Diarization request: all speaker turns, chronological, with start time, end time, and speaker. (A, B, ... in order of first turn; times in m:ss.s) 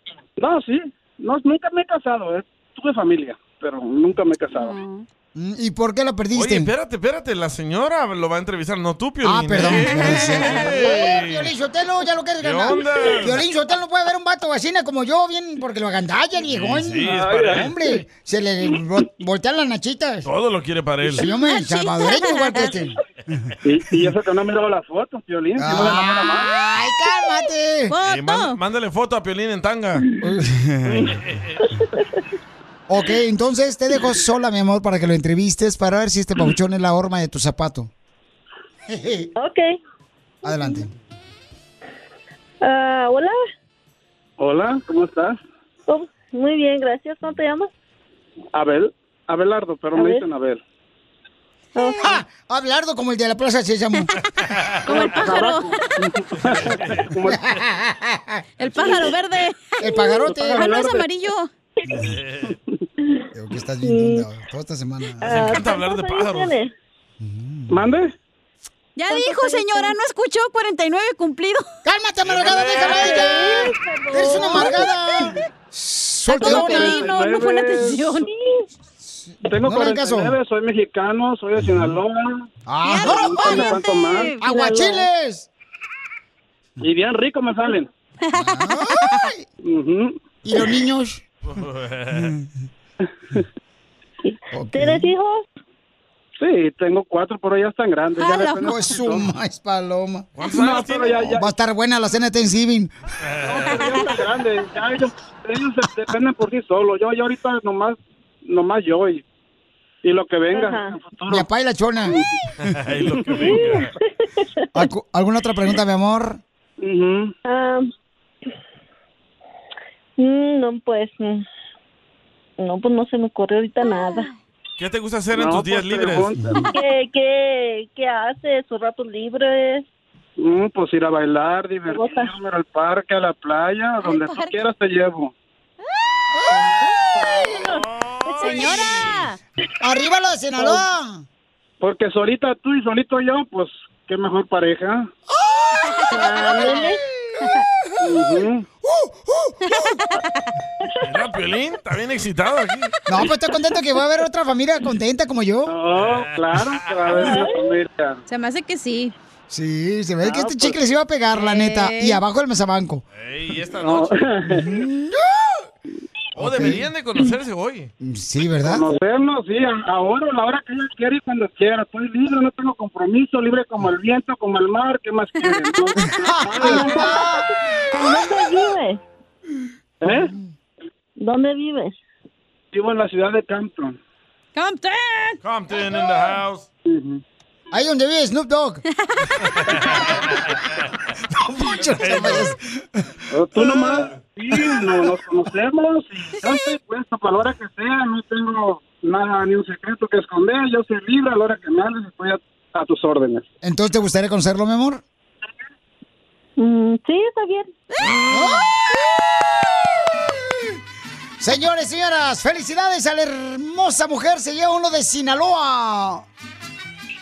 0:00.4-0:04.7 A
0:04.5-0:05.0 B
0:05.4-0:06.7 C
0:06.3-0:11.5 D
0:09.2-0:20.3 C
0:12.4-0:13.4 D
0:16.5-0:17.7 D
0:20.2-0:21.3 D
0:21.1-0:23.0 C
0:21.2-0:22.7 B
0:23.7-0:26.5 A
0:25.6-0:28.0 C
0:27.9-0:28.6 B
0:28.0-0:30.0 D
0:30.2-0:31.0 C
0:31.2-0:31.7 D
0:32.9-0:37.9 C
0:38.9-0:39.3 C
0:39.4-0:39.7 E
0:40.4-0:40.9 C
0:40.5-0:40.9 E
0:42.6-0:43.4 E
0:44.4-0:45.3 A
0:45.9-0:47.7 E
0:48.6-0:50.6 A
0:49.9-0:50.3 E
0:51.8-0:52.2 E
0:51.8-0:54.1 C
0:54.5-0:55.1 D
0:54.8-0:55.9 B
0:55.0-0:57.4 A
0:56.4-0:57.0 D
0:57.3-0:58.4 C
0:58.6-1:01.5 B
0:58.8-0:59.1 E
0:59.8-1:00.8 C
1:00.3-1:01.0 A
1:01.9-1:02.5 D
1:03.3-1:05.6 C
1:03.8-1:04.3 E
1:05.2-1:06.7 E
1:05.3-1:06.6 D
1:07.2-1:07.8 C
1:07.7-1:08.1 A
1:09.0-1:11.6 B
1:09.1-1:10.0 E
1:11.8-1:17.1 C
1:12.2-1:13.5 D
1:12.5-1:15.3 E
1:16.3-1:18.3 B
1:16.4-1:16.8 E
1:16.9-1:18.0 A
1:18.3-1:18.6 E
1:19.0-1:20.4 C
1:19.5-1:22.4 A
1:22.7-1:23.8 C
1:22.8-1:24.8 B
1:23.2-1:24.3 A
1:24.4-1:25.5 C
1:24.4-1:25.1 E
1:26.8-1:27.9 A
1:28.3-1:29.3 B
1:28.3-1:29.4 C
1:29.6-1:30.1 A
1:30.4-1:31.2 C
1:31.4-1:32.3 D
1:32.1-1:32.5 C
1:34.3-1:35.4 E
1:34.5-1:35.1 C
1:36.4-1:39.2 A
1:38.2-1:38.8 B
1:38.6-1:40.3 C
1:40.4-1:41.3 D
1:40.5-1:41.4 A
1:41.3-1:42.9 C
1:43.2-1:43.9 D
1:43.5-1:49.2 A
1:50.0-1:51.4 A
1:50.5-1:51.0 E
1:51.3-1:52.7 C
1:52.6-1:53.9 D
1:53.4-1:54.8 E
1:54.7-1:56.4 C
1:56.8-1:57.3 A
1:57.4-1:57.9 E
2:00.2-2:01.4 E
2:02.6-2:04.3 E
2:04.8-2:06.3 D
2:05.3-2:06.6 A
2:06.4-2:06.7 C
2:06.7-2:09.8 E
2:10.4-2:15.3 A
2:11.9-2:12.4 E
2:14.0-2:14.6 B
2:17.2-2:17.8 E
2:17.2-2:19.3 D
2:18.3-2:18.6 E
2:18.4-2:19.4 B
2:19.8-2:21.2 C
2:21.8-2:25.1 A
2:25.4-2:28.2 C
2:26.1-2:27.0 E
2:28.0-2:28.6 A
2:28.8-2:30.0 C
2:29.7-2:30.3 B
2:31.0-2:32.9 D
2:33.1-2:35.7 C
2:35.7-2:38.2 A
2:35.9-2:37.2 D
2:37.2-2:37.6 E
2:38.3-2:39.1 B
2:39.5-2:43.0 C
2:40.2-2:40.7 A
2:41.3-2:42.2 B
2:43.2-2:44.2 D
2:43.8-2:44.1 A
2:44.5-2:45.6 C
2:46.4-2:46.9 C
2:46.4-2:47.9 D
2:48.0-2:48.8 C
2:48.6-2:57.1 A
2:56.1-2:57.5 C
2:56.6-2:59.0 E
3:00.0-3:00.3 A
3:01.2-3:02.0 E
3:02.7-3:04.0 A
3:04.6-3:05.4 B
3:05.4-3:06.7 D
3:06.9-3:07.2 A
3:07.7-3:08.8 C
3:09.6-3:10.1 D
3:11.4-3:12.7 C
3:11.8-3:12.6 D
3:13.3-3:23.4 A
3:13.7-3:14.1 D
3:16.4-3:16.7 B
3:23.6-3:25.0 C
3:26.6-3:27.7 E
3:28.3-3:28.7 C
3:31.4-3:36.3 C